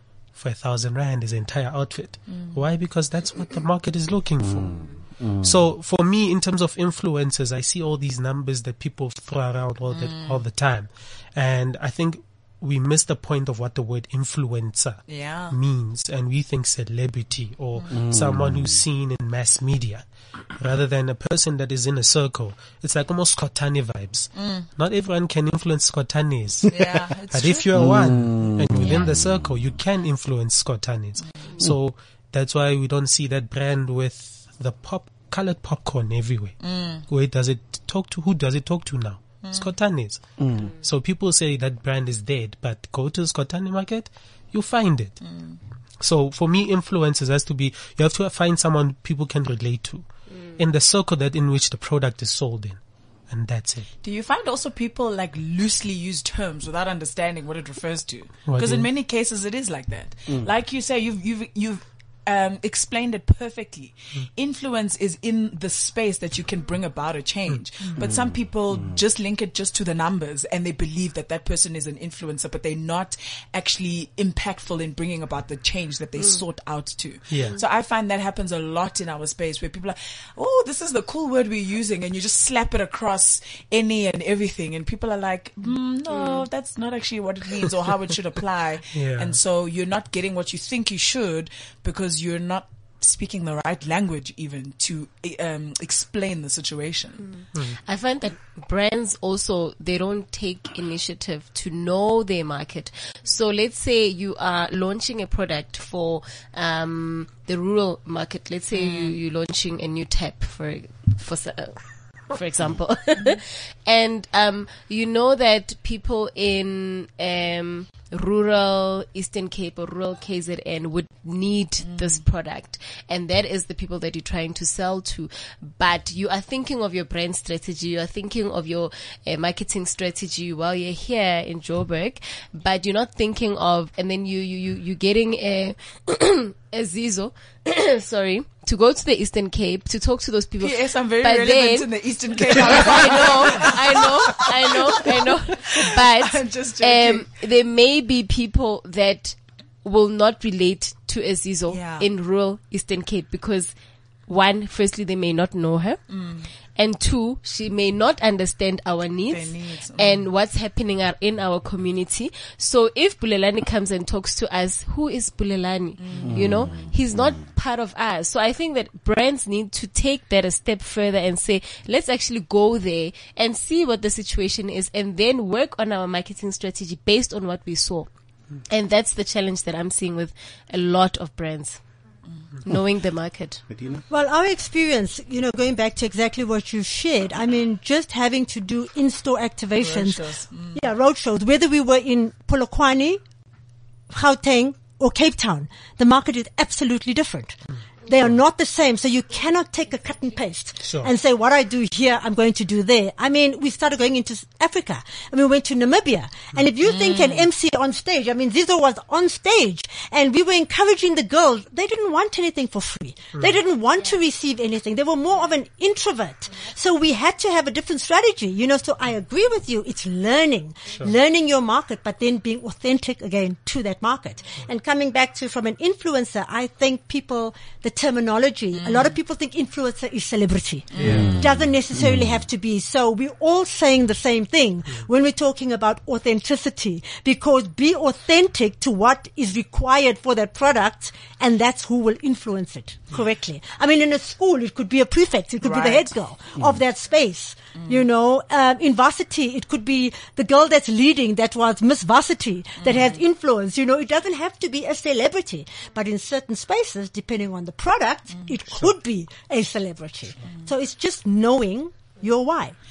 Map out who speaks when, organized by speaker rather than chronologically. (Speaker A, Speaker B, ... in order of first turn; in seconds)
Speaker A: 0.3-26.8, 27.3-36.6, 37.1-45.2, 46.0-53.9, 58.5-58.9, 77.3-77.6, 88.9-89.4, 200.8-201.1, 231.0-231.4
Speaker B: 2.3-2.6, 9.9-10.4, 15.1-15.6, 24.4-24.7, 26.7-27.8, 36.6-37.0, 39.4-39.7, 45.2-45.6, 54.0-97.3, 108.7-109.2, 121.9-122.2, 140.6-147.3, 151.7-152.1, 156.1-156.5, 159.3-160.3, 166.0-166.7, 189.8-190.8, 206.8-207.5, 228.7-229.2, 230.9-231.4, 245.6-246.1, 252.8-253.2
Speaker C: 4.4-5.6, 17.9-18.8, 27.8-29.5, 40.4-40.7, 68.0-69.0, 166.2-167.3, 183.7-184.0, 231.0-232.4, 246.6-246.8
Speaker D: 86.1-86.5, 97.2-153.7, 154.3-156.0, 156.8-178.1, 178.7-181.8, 182.6-183.6
Speaker E: 184.1-193.2, 194.1-262.8